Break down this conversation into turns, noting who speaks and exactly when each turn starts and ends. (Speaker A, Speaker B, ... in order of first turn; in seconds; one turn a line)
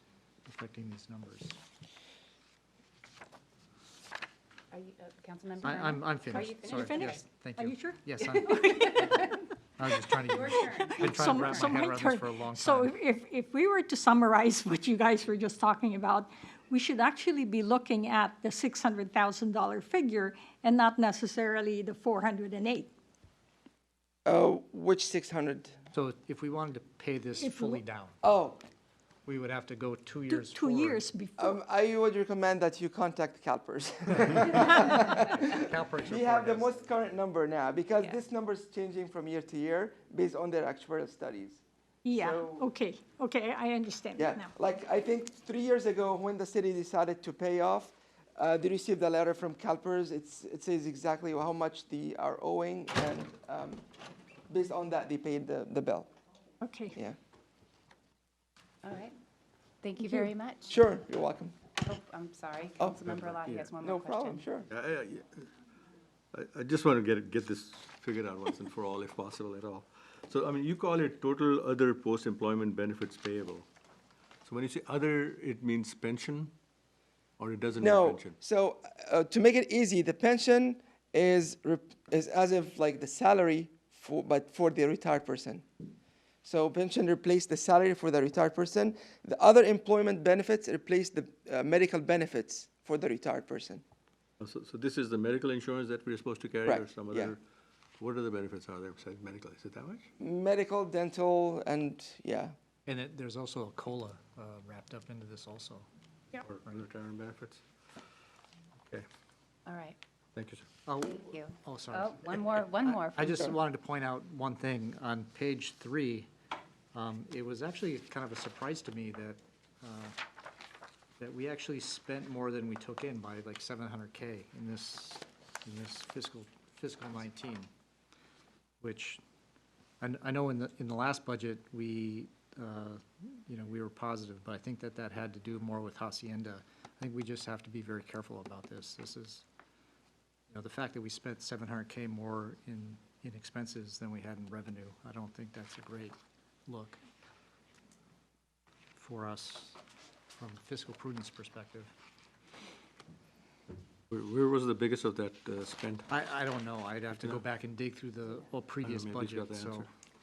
Speaker A: 0.5-1.6
Speaker B: 4.7-7.2
Speaker A: 5.6-9.2
Speaker C: 6.3-9.5
Speaker B: 8.2-9.3
Speaker A: 9.8-12.9
Speaker B: 10.3-11.8
Speaker C: 10.3-22.9
Speaker D: 24.2-25.8
Speaker A: 25.9-28.2
Speaker C: 27.4-27.8
Speaker D: 28.2-28.6
Speaker A: 29.3-31.0
Speaker C: 30.3-31.6
Speaker D: 31.4-41.6
Speaker A: 35.2-36.7
Speaker C: 42.0-44.5
Speaker D: 42.1-42.7
Speaker D: 44.2-53.9
Speaker D: 54.5-56.1
Speaker C: 56.6-57.0
Speaker B: 58.8-59.1
Speaker B: 59.8-60.8
Speaker D: 60.7-61.6
Speaker B: 61.8-64.5
Speaker D: 62.8-63.2
Speaker E: 63.2-63.7
Speaker D: 63.8-64.7
Speaker E: 64.7-65.4
Speaker E: 66.3-73.7
Speaker E: 74.5-76.5
Speaker E: 77.4-78.3
Speaker D: 77.8-85.7
Speaker D: 86.4-93.8
Speaker E: 94.4-97.4
Speaker D: 96.7-97.4
Speaker E: 98.0-100.1
Speaker D: 100.2-102.5
Speaker A: 102.9-105.9
Speaker E: 106.5-107.6
Speaker B: 109.7-110.0
Speaker E: 110.4-110.7
Speaker A: 110.9-116.3
Speaker B: 111.0-113.5
Speaker A: 116.9-120.2
Speaker A: 121.2-127.7
Speaker A: 128.8-129.2
Speaker A: 130.0-139.4
Speaker A: 140.5-147.0
Speaker A: 149.0-149.8
Speaker A: 150.3-151.9
Speaker E: 154.1-156.1
Speaker A: 156.1-159.9
Speaker E: 157.2-157.4
Speaker E: 158.8-159.8